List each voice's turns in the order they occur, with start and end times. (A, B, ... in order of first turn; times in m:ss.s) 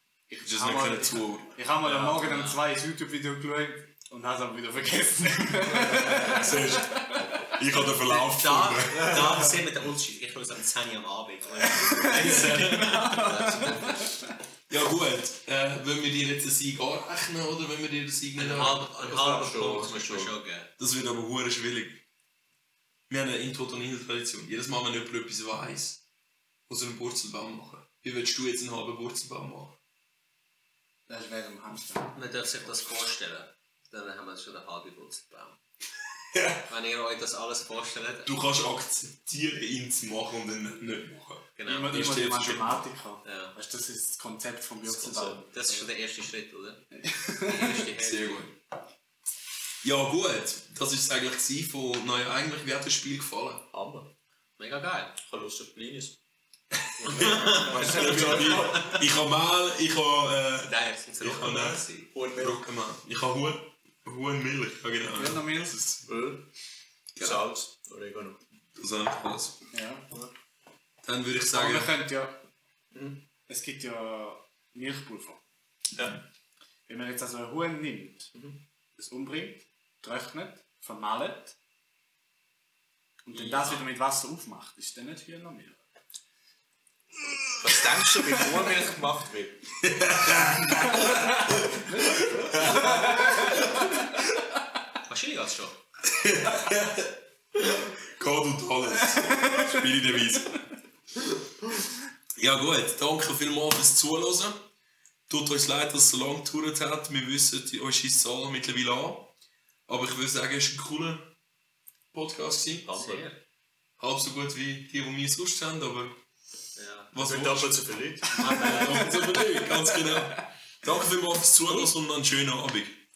0:00.3-0:07.5 A
0:00.4-0:01.6 B
0:01.8-0:02.6 C
0:05.6-0:06.5 D
0:06.2-0:09.5 B
0:08.0-0:13.9 C
0:11.7-0:14.2 A
0:12.0-0:13.2 B
0:13.0-0:14.1 D
0:14.7-0:18.8 B
0:18.4-0:20.7 C
0:19.0-0:20.3 D
0:20.8-0:22.0 B
0:23.1-0:26.0 B
0:26.7-0:29.8 B
0:31.1-0:32.2 A
0:32.2-0:35.6 C
0:36.3-0:36.7 B
0:36.7-0:38.3 C
0:38.2-0:42.8 B
0:41.6-0:42.0 C
0:41.7-0:45.9 A
0:43.2-0:43.5 C
0:44.8-0:45.5 D
0:45.5-0:48.5 C
0:46.9-0:47.8 A
0:48.0-0:48.6 B
0:49.8-0:53.7 B
0:53.7-0:54.1 D
0:54.6-0:55.2 C
0:55.2-0:56.2 D
0:57.0-1:06.1 B
0:57.0-0:58.3 A
0:57.1-0:59.0 D
0:57.1-0:59.0 C
1:00.6-1:02.1 C
1:02.1-1:02.6 D
1:05.2-1:05.8 A
1:06.1-1:06.5 D
1:07.2-1:07.5 B
1:07.2-1:08.4 D
1:08.8-1:09.6 B
1:09.7-1:10.1 A
1:11.0-1:12.0 B
1:11.5-1:12.4 A
1:12.9-1:13.2 D
1:13.5-1:15.4 A
1:16.9-1:18.3 A
1:18.3-1:18.6 D
1:19.0-1:21.6 A
1:23.3-1:25.8 A
1:23.3-1:23.9 C
1:27.6-1:29.7 D
1:29.8-1:34.0 B
1:31.7-1:34.0 A
1:35.1-1:35.8 C
1:36.0-1:40.6 B
1:39.2-1:39.8 A
1:42.4-1:44.7 B
1:45.3-1:49.3 B
1:49.9-1:51.3 B
1:52.1-1:52.9 B
1:52.9-1:53.3 D
1:52.9-1:53.4 C
1:54.0-1:56.2 B
1:56.8-1:57.1 C
1:57.1-1:57.8 B
1:57.2-1:58.5 D
1:58.3-1:59.2 C
1:58.4-2:00.4 A
1:58.5-2:03.0 B